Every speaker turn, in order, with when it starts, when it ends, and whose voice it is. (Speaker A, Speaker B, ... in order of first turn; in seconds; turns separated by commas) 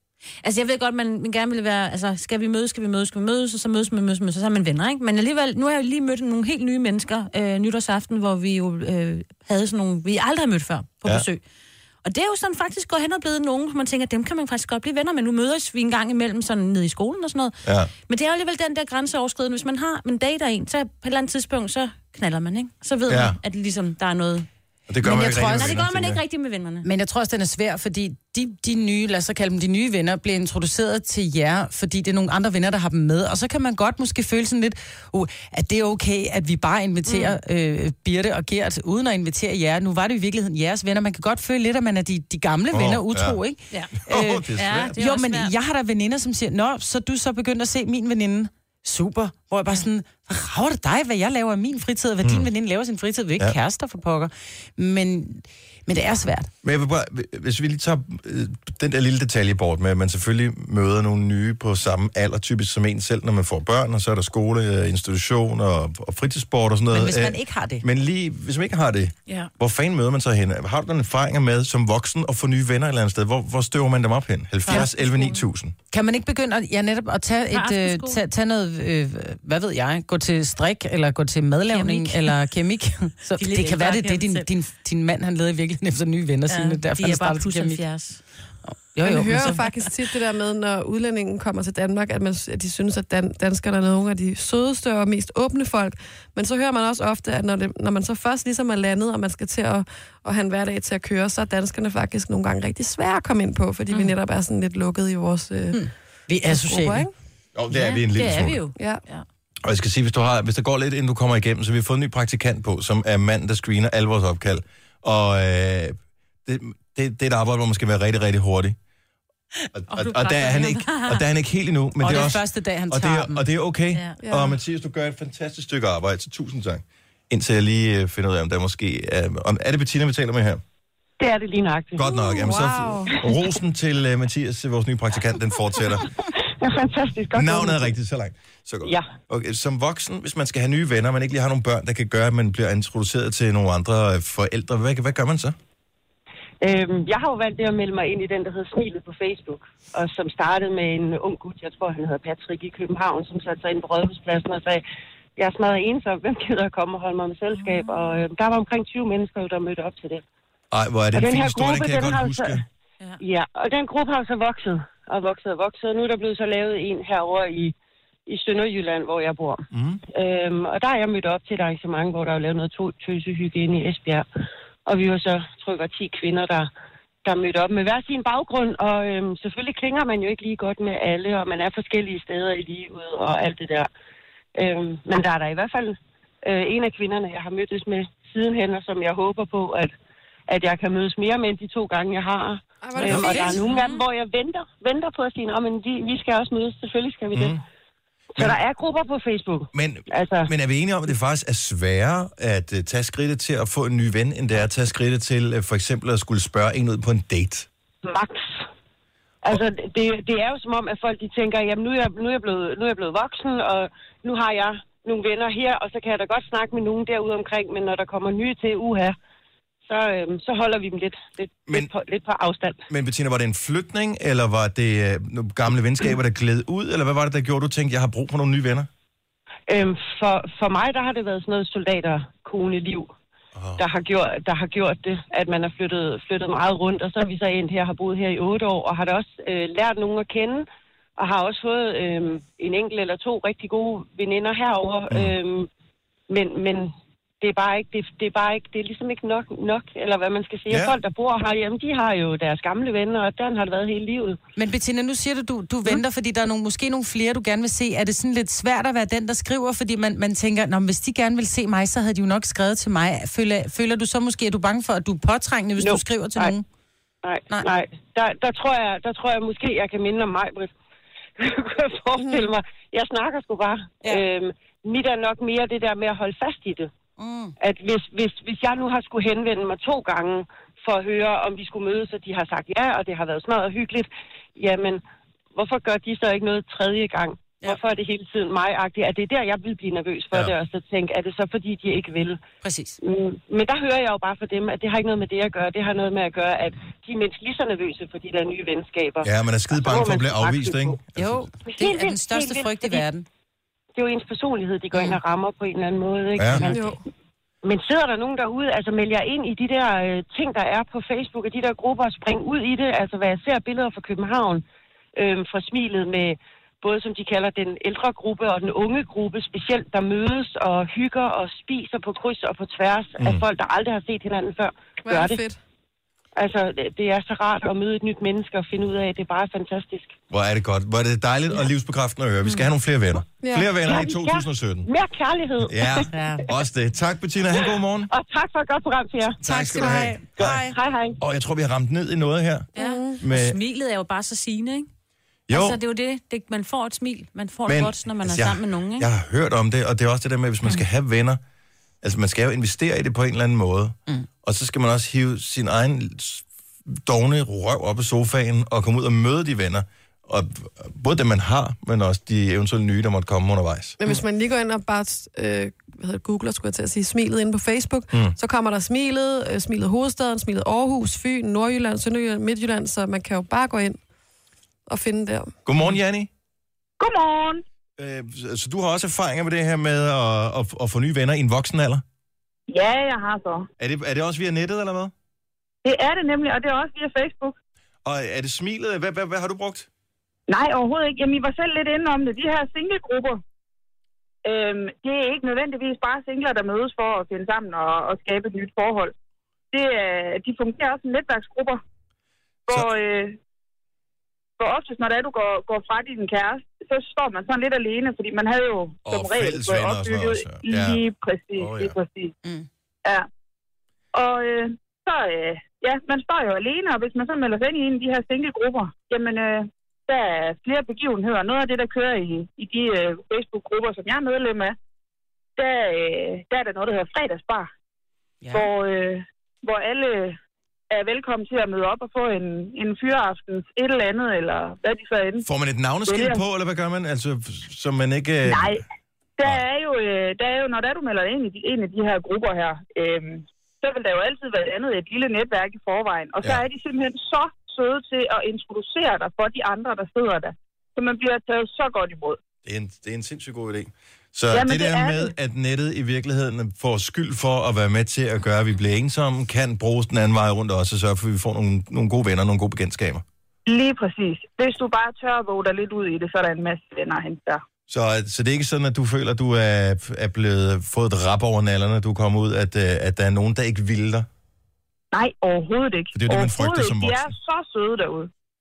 Speaker A: 0.4-11.4, Speaker A: 12.0-24.5, Speaker B: 17.7-17.9, Speaker B: 23.1-23.4, Speaker B: 24.9-26.2, Speaker C: 25.0-25.7, Speaker A: 25.3-26.9, Speaker C: 26.8-56.5, Speaker A: 37.1-37.4, Speaker B: 42.7-43.4, Speaker A: 43.7-44.0, Speaker B: 44.0-45.0, Speaker A: 44.5-45.5, Speaker B: 52.2-52.5, Speaker B: 56.6-75.8, Speaker C: 66.9-67.8, Speaker A: 74.7-75.4, Speaker C: 75.9-88.0, Speaker A: 77.5-78.2, Speaker A: 81.7-82.3, Speaker A: 83.4-84.5, Speaker A: 86.5-88.3, Speaker C: 88.7-89.6, Speaker D: 89.0-105.8, Speaker A: 103.9-104.2, Speaker C: 105.8-107.1, Speaker D: 106.5-107.1, Speaker B: 107.5-108.6, Speaker A: 107.7-109.3, Speaker B: 109.6-118.8, Speaker B: 119.7-130.6, Speaker A: 119.9-121.2, Speaker C: 122.0-123.5, Speaker A: 123.9-124.2, Speaker D: 124.2-124.6, Speaker E: 131.2-132.1, Speaker B: 131.9-136.1, Speaker D: 132.1-133.1, Speaker E: 136.6-137.9, Speaker B: 137.3-145.6, Speaker E: 138.8-139.1, Speaker E: 146.6-154.8, Speaker E: 155.4-160.2, Speaker A: 157.5-158.2, Speaker B: 160.7-162.7, Speaker E: 161.1-162.6, Speaker E: 163.2-167.8, Speaker E: 168.3-174.3, Speaker B: 169.7-170.0, Speaker E: 174.9-176.7, Speaker E: 177.2-183.9, Speaker E: 184.6-189.9, Speaker E: 190.5-197.6, Speaker D: 192.8-193.6, Speaker B: 193.0-193.6, Speaker A: 193.7-194.0, Speaker B: 197.3-197.6, Speaker E: 198.3-200.5, Speaker B: 199.7-207.7, Speaker E: 208.0-208.6, Speaker E: 209.4-219.2, Speaker E: 219.9-222.8, Speaker B: 222.9-228.9, Speaker E: 229.7-233.1, Speaker B: 233.6-233.8, Speaker E: 233.8-240.7, Speaker E: 241.2-245.7, Speaker E: 246.3-254.4, Speaker B: 250.7-251.0, Speaker C: 254.6-266.6, Speaker E: 265.8-266.6, Speaker E: 267.2-270.7, Speaker E: 271.4-276.9, Speaker D: 272.2-272.5, Speaker C: 277.2-277.5, Speaker E: 277.6-285.0, Speaker E: 285.5-292.4, Speaker C: 292.6-293.0, Speaker E: 293.0-301.0, Speaker B: 299.2-301.5, Speaker C: 301.2-303.3, Speaker E: 301.6-303.0, Speaker E: 304.0-306.9, Speaker B: 306.4-306.7, Speaker D: 306.7-307.0, Speaker E: 307.6-314.6, Speaker E: 315.2-325.4, Speaker B: 323.2-323.4, Speaker D: 325.0-325.6, Speaker E: 326.4-330.1, Speaker B: 330.3-334.9, Speaker D: 333.4-333.9, Speaker E: 333.9-336.1, Speaker B: 335.6-338.1, Speaker C: 336.1-336.5, Speaker E: 337.6-339.4, Speaker B: 339.4-343.6, Speaker C: 339.4-340.8, Speaker E: 340.7-341.2, Speaker A: 342.8-344.9, Speaker D: 342.8-343.2, Speaker B: 345.5-345.8, Speaker A: 345.5-349.1, Speaker B: 347.7-351.4, Speaker B: 352.0-364.0, Speaker D: 364.0-374.0, Speaker D: 374.9-375.5, Speaker B: 375.7-376.3, Speaker F: 377.0-377.6, Speaker B: 378.0-382.0, Speaker F: 382.7-383.7, Speaker B: 383.8-385.1, Speaker F: 385.8-387.6, Speaker B: 388.1-389.9, Speaker F: 390.5-393.4, Speaker F: 394.4-399.1, Speaker F: 399.7-401.8, Speaker F: 402.7-403.4, Speaker F: 404.6-412.3, Speaker B: 409.1-411.1, Speaker B: 411.6-412.0, Speaker F: 414.1-424.8, Speaker F: 425.6-427.7, Speaker C: 428.4-428.7, Speaker F: 428.5-430.4, Speaker F: 430.9-435.4, Speaker B: 435.4-438.8, Speaker F: 436.1-436.4, Speaker F: 438.4-438.8, Speaker F: 439.4-452.4, Speaker B: 452.6-463.2, Speaker F: 454.5-455.3, Speaker F: 463.7-467.6, Speaker B: 467.9-474.3, Speaker F: 475.1-478.3, Speaker B: 476.1-477.3